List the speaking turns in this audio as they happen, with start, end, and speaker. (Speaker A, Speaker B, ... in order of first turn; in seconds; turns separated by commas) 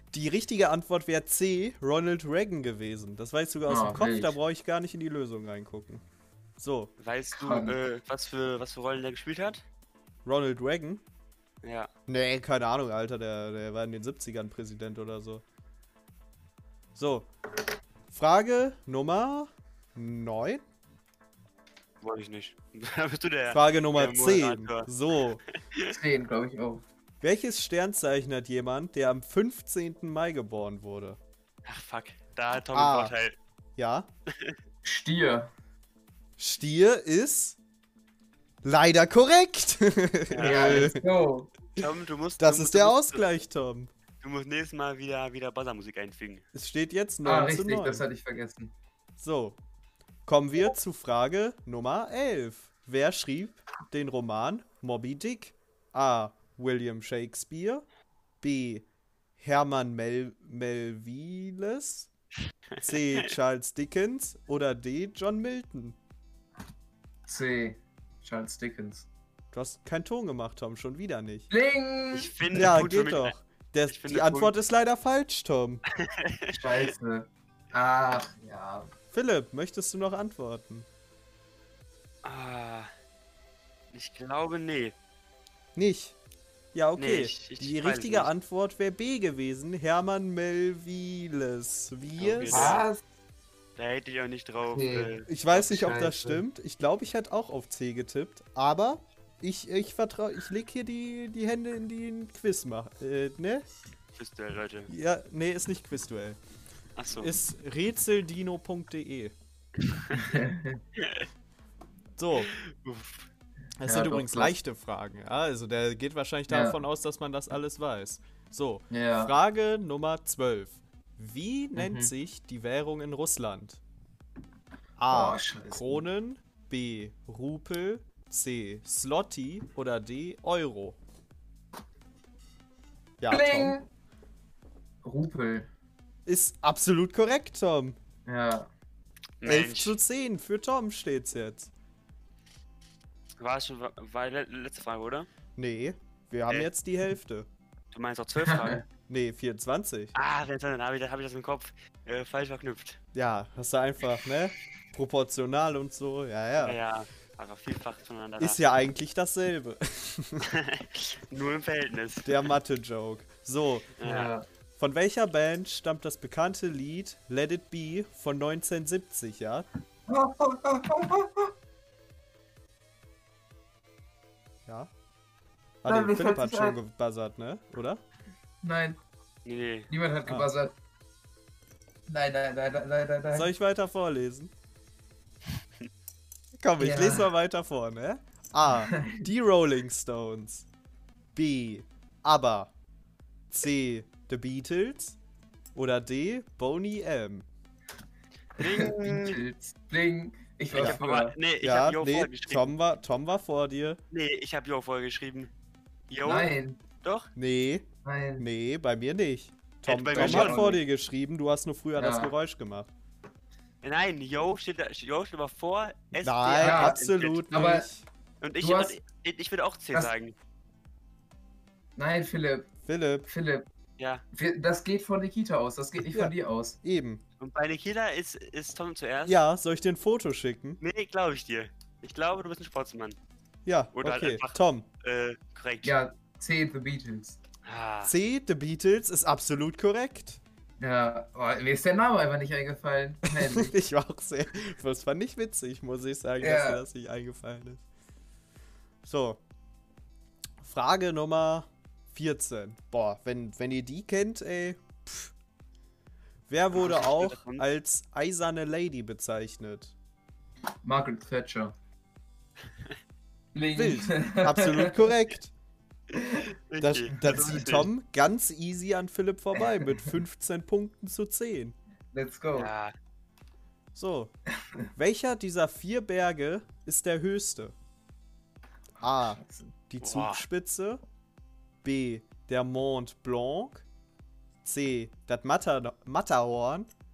Speaker A: 0.1-6.0, Speaker B: 3.7-4.3, Speaker A: 6.6-6.9, Speaker C: 7.0-9.6, Speaker B: 7.3-7.7, Speaker A: 10.2-11.0, Speaker C: 11.6-11.9, Speaker A: 12.1-15.4, Speaker A: 16.9-17.3, Speaker A: 18.1-20.6, Speaker C: 22.0-24.9, Speaker A: 23.5-25.4, Speaker C: 25.6-25.9, Speaker B: 25.9-26.8, Speaker A: 27.2-31.2, Speaker C: 31.6-33.4, Speaker A: 32.7-33.1, Speaker A: 33.8-34.1, Speaker B: 34.8-35.5, Speaker A: 36.4-37.6, Speaker A: 38.6-41.0, Speaker C: 40.3-40.9, Speaker B: 40.4-41.5, Speaker C: 41.7-43.2, Speaker A: 42.4-43.9, Speaker C: 44.2-46.5, Speaker A: 46.5-48.0, Speaker B: 47.2-48.7, Speaker A: 49.2-49.6, Speaker A: 50.2-57.8, Speaker A: 58.4-58.9, Speaker A: 59.4-62.1, Speaker C: 62.7-63.3, Speaker A: 62.8-66.0, Speaker B: 67.2-69.1, Speaker A: 69.5-71.5, Speaker B: 71.5-72.3, Speaker C: 72.1-73.3, Speaker A: 72.5-75.8, Speaker C: 73.9-74.5, Speaker C: 76.0-76.9, Speaker B: 76.5-78.9, Speaker A: 79.1-80.9, Speaker C: 82.2-82.9, Speaker C: 83.9-84.9, Speaker A: 85.7-86.2, Speaker A: 86.7-92.8, Speaker C: 87.0-88.3, Speaker C: 92.2-92.8, Speaker B: 92.5-93.0, Speaker C: 93.8-95.3, Speaker B: 94.7-96.4, Speaker A: 95.3-103.6, Speaker C: 104.1-104.9, Speaker A: 104.9-106.4, Speaker C: 107.0-107.3, Speaker A: 107.2-109.3, Speaker C: 109.8-110.3, Speaker B: 110.1-110.8, Speaker C: 111.0-111.3, Speaker A: 112.2-112.5, Speaker C: 112.4-113.3, Speaker A: 113.8-123.8, Speaker B: 113.8-114.5, Speaker B: 116.5-116.8, Speaker B: 118.9-119.3, Speaker B: 121.8-122.1, Speaker A: 125.0-131.0, Speaker B: 125.1-126.0, Speaker A: 133.2-133.7, Speaker B: 133.3-133.9, Speaker B: 135.0-135.7, Speaker A: 136.2-138.0, Speaker B: 138.2-138.7, Speaker C: 139.4-139.9, Speaker A: 139.4-141.7, Speaker C: 143.4-145.3, Speaker A: 145.6-147.5, Speaker C: 147.9-148.8, Speaker B: 148.4-148.8, Speaker A: 149.1-150.1, Speaker C: 150.1-153.0, Speaker A: 153.1-156.8, Speaker C: 156.6-158.6, Speaker A: 158.4-160.5, Speaker C: 160.4-162.3, Speaker A: 162.2-169.7, Speaker C: 164.0-164.3, Speaker B: 164.0-164.4, Speaker B: 170.1-171.5, Speaker A: 175.8-178.0, Speaker B: 175.8-176.8, Speaker B: 178.6-179.0, Speaker C: 179.4-179.9, Speaker B: 179.9-180.7, Speaker B: 182.1-183.5, Speaker A: 183.3-184.5, Speaker A: 186.6-190.7, Speaker B: 186.8-187.3, Speaker B: 188.7-189.2, Speaker A: 191.3-192.7, Speaker A: 193.5-195.2, Speaker A: 195.7-197.4, Speaker C: 198.6-199.4, Speaker B: 198.6-201.3, Speaker A: 200.7-201.0, Speaker C: 200.7-202.7, Speaker A: 201.6-204.0, Speaker C: 204.1-205.5, Speaker C: 206.1-207.3, Speaker B: 206.2-206.8, Speaker A: 207.3-207.9, Speaker B: 208.0-208.4, Speaker A: 208.4-212.9, Speaker C: 209.8-210.7, Speaker B: 210.1-210.8, Speaker B: 212.0-212.3, Speaker C: 213.8-217.5, Speaker A: 216.2-218.1, Speaker B: 216.6-217.0, Speaker B: 217.5-217.9, Speaker C: 218.4-220.3, Speaker B: 218.6-218.9, Speaker B: 221.9-222.7, Speaker A: 222.8-223.3, Speaker B: 223.3-223.7, Speaker C: 224.0-224.2, Speaker B: 224.3-226.8, Speaker A: 226.1-227.2, Speaker C: 227.4-229.4, Speaker A: 229.2-230.8, Speaker C: 230.8-233.2, Speaker A: 233.6-234.9, Speaker C: 233.9-235.9, Speaker B: 235.8-237.4, Speaker C: 237.6-238.1, Speaker A: 238.0-240.4, Speaker B: 240.8-243.8, Speaker A: 243.3-247.8, Speaker B: 246.4-246.8, Speaker A: 249.0-249.4, Speaker A: 250.6-255.3, Speaker A: 256.5-259.9, Speaker C: 256.7-257.6, Speaker B: 260.8-261.7, Speaker B: 263.5-265.1, Speaker A: 263.7-265.5, Speaker B: 266.1-266.4, Speaker C: 266.4-267.9, Speaker A: 266.8-271.8, Speaker B: 267.2-267.7, Speaker B: 269.6-270.1, Speaker B: 272.1-272.7, Speaker C: 272.5-272.9, Speaker A: 273.9-274.3, Speaker A: 274.9-277.7, Speaker A: 279.0-281.0, Speaker B: 279.0-279.7, Speaker C: 280.0-280.4, Speaker A: 281.8-283.8, Speaker A: 284.6-286.9